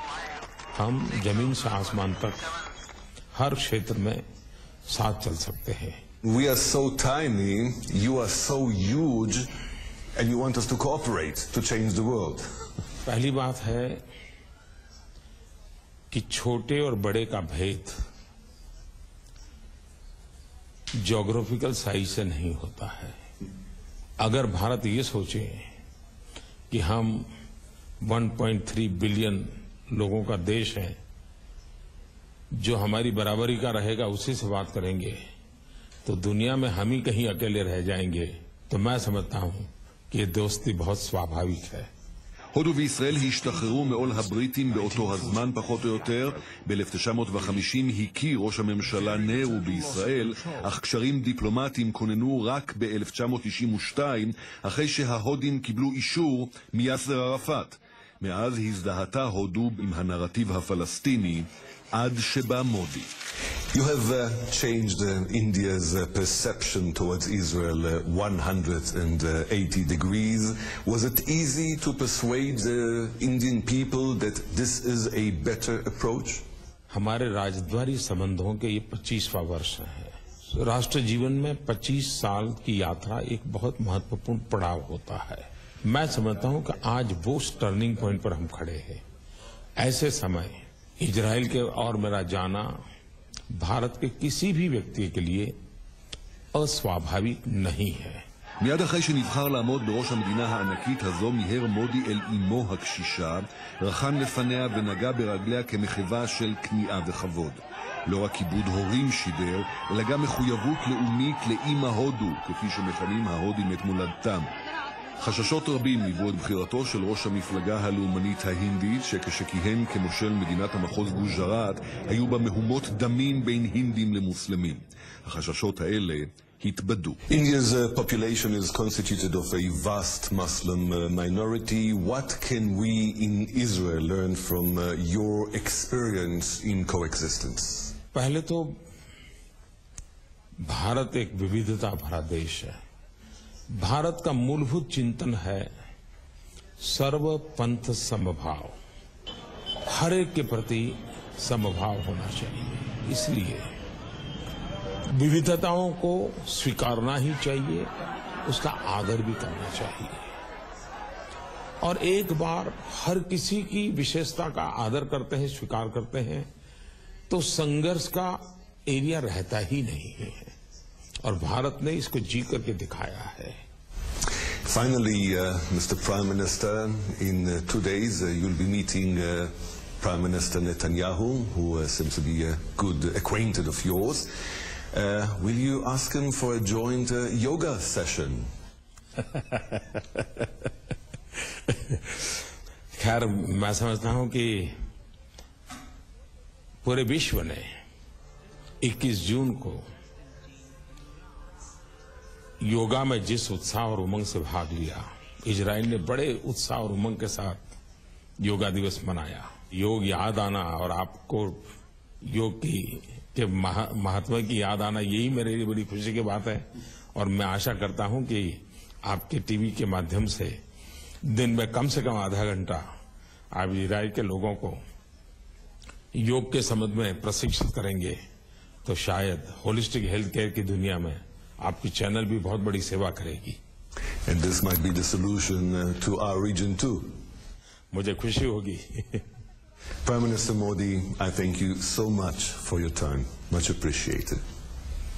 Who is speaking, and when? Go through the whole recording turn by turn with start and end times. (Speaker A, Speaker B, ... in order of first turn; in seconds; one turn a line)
Speaker A: 0.7-2.4
Speaker A: 3.4-4.2
Speaker A: 4.9-6.0
Speaker B: 6.2-9.5
Speaker B: 10.2-12.5
Speaker A: 13.1-14.0
Speaker A: 16.1-18.0
Speaker A: 21.0-23.2
Speaker A: 24.2-25.7
Speaker A: 26.7-27.3
Speaker A: 28.0-31.0
Speaker A: 32.6-35.2
Speaker A: 36.0-41.9
Speaker C: 42.5-63.1
Speaker B: 63.7-76.4
Speaker A: 76.9-89.0
Speaker A: 89.8-92.7
Speaker A: 93.5-95.5
Speaker A: 96.5-98.2
Speaker C: 98.6-114.5
Speaker C: 115.2-127.2
Speaker B: 127.3-137.9
Speaker A: 138.1-138.7
Speaker A: 140.7-142.8
Speaker A: 143.8-145.7
Speaker A: 146.8-148.8
Speaker A: 149.9-153.7
Speaker A: 155.1-157.9
Speaker A: 158.4-160.3
Speaker A: 161.8-166.5
Speaker A: 167.3-170.5
Speaker A: 171.2-173.6
Speaker B: 174.7-184.3
Speaker B: 184.9-188.5
Speaker A: 192.9-194.7
Speaker A: 196.8-197.7
Speaker A: 198.8-199.8
Speaker A: 202.6-207.6
Speaker A: 208.4-211.6
Speaker A: 212.3-220.6
Speaker A: 221.2-222.8
Speaker A: 223.5-224.8
Speaker A: 226.2-228.2
Speaker A: 228.8-233.6
Speaker B: 234.2-237.2
Speaker A: 237.9-239.2
Speaker B: 240.0-244.4